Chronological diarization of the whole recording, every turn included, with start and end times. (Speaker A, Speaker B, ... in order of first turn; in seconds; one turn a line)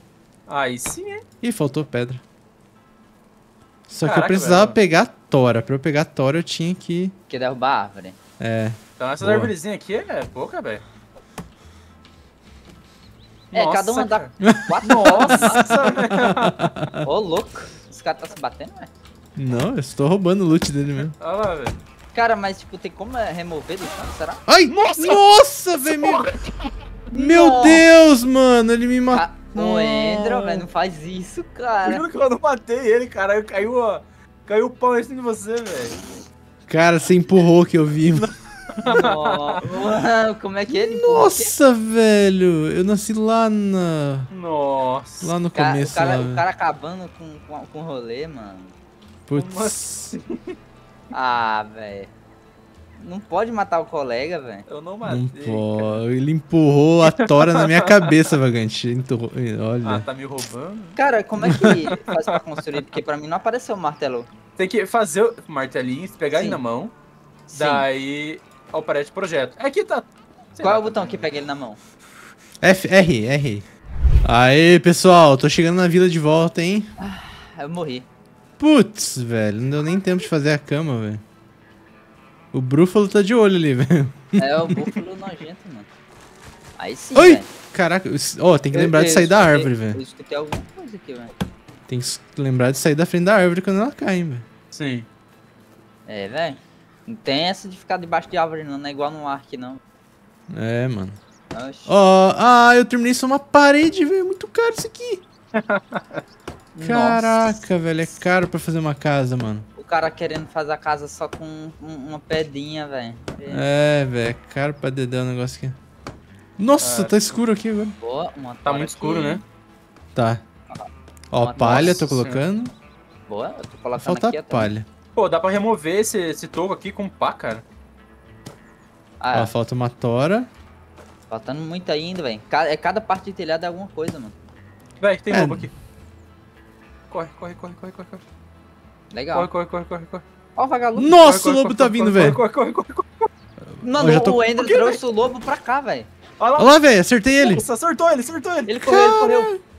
Speaker A: 0.5-1.2
Speaker B: 1.4-2.2
Speaker B: 3.9-7.1
Speaker A: 4.0-4.8
Speaker C: 7.3-8.2
Speaker B: 8.4-9.5
Speaker A: 9.0-10.8
Speaker A: 13.5-14.3
Speaker C: 13.5-15.7
Speaker B: 14.4-17.1
Speaker A: 14.8-16.7
Speaker C: 17.0-18.9
Speaker B: 19.4-21.1
Speaker A: 21.2-21.8
Speaker C: 22.1-24.4
Speaker B: 24.5-26.3
Speaker A: 24.7-25.2
Speaker A: 25.8-26.4
Speaker B: 27.1-30.7
Speaker C: 27.1-27.9
Speaker C: 29.1-32.0
Speaker A: 31.8-36.0
Speaker B: 36.7-38.3
Speaker A: 38.1-39.8
Speaker C: 38.8-41.5
Speaker B: 40.7-44.3
Speaker A: 44.3-45.3
Speaker B: 45.2-46.4
Speaker C: 45.5-48.7
Speaker B: 49.3-50.1
Speaker A: 49.3-50.5
Speaker C: 51.1-52.1
Speaker C: 53.0-54.6
Speaker A: 54.7-56.0
Speaker B: 55.0-60.0
Speaker A: 57.0-58.3
Speaker A: 59.8-61.0
Speaker C: 61.0-64.3
Speaker B: 61.4-61.8
Speaker A: 61.5-62.8
Speaker A: 64.6-66.9
Speaker C: 66.3-66.6
Speaker A: 67.5-71.3
Speaker C: 67.5-67.8
Speaker C: 70.6-71.8
Speaker B: 72.6-73.7
Speaker B: 74.2-76.9
Speaker C: 77.0-78.1
Speaker B: 78.6-81.2
Speaker B: 82.5-84.8
Speaker C: 84.4-85.9
Speaker C: 86.8-87.5
Speaker B: 87.1-90.0
Speaker C: 88.7-91.3
Speaker B: 91.9-94.4
Speaker A: 94.7-95.1
Speaker C: 96.1-99.8
Speaker B: 100.5-101.2
Speaker C: 101.5-101.9
Speaker B: 101.8-105.2
Speaker A: 105.5-106.2
Speaker C: 106.8-107.6
Speaker B: 106.8-109.7
Speaker C: 109.8-113.7
Speaker B: 113.5-115.8
Speaker B: 116.6-117.9
Speaker A: 116.8-117.4
Speaker C: 118.0-119.4
Speaker A: 118.6-119.4
Speaker B: 120.2-120.4
Speaker C: 120.7-122.1
Speaker B: 121.3-122.7
Speaker A: 121.6-122.4
Speaker C: 123.3-124.7
Speaker B: 124.0-124.9
Speaker A: 125.1-127.6
Speaker C: 129.2-129.5
Speaker B: 129.3-130.5
Speaker C: 131.3-134.3
Speaker A: 135.0-135.7
Speaker B: 135.3-135.7
Speaker A: 137.1-138.2
Speaker C: 139.1-139.5
Speaker A: 139.3-140.2
Speaker C: 140.6-141.3
Speaker B: 140.9-142.4
Speaker A: 141.2-143.3
Speaker B: 143.7-144.4
Speaker C: 143.8-146.1
Speaker A: 144.3-145.0
Speaker A: 146.4-146.8
Speaker B: 146.6-147.6
Speaker A: 147.4-148.9
Speaker C: 148.7-149.5
Speaker B: 148.8-149.6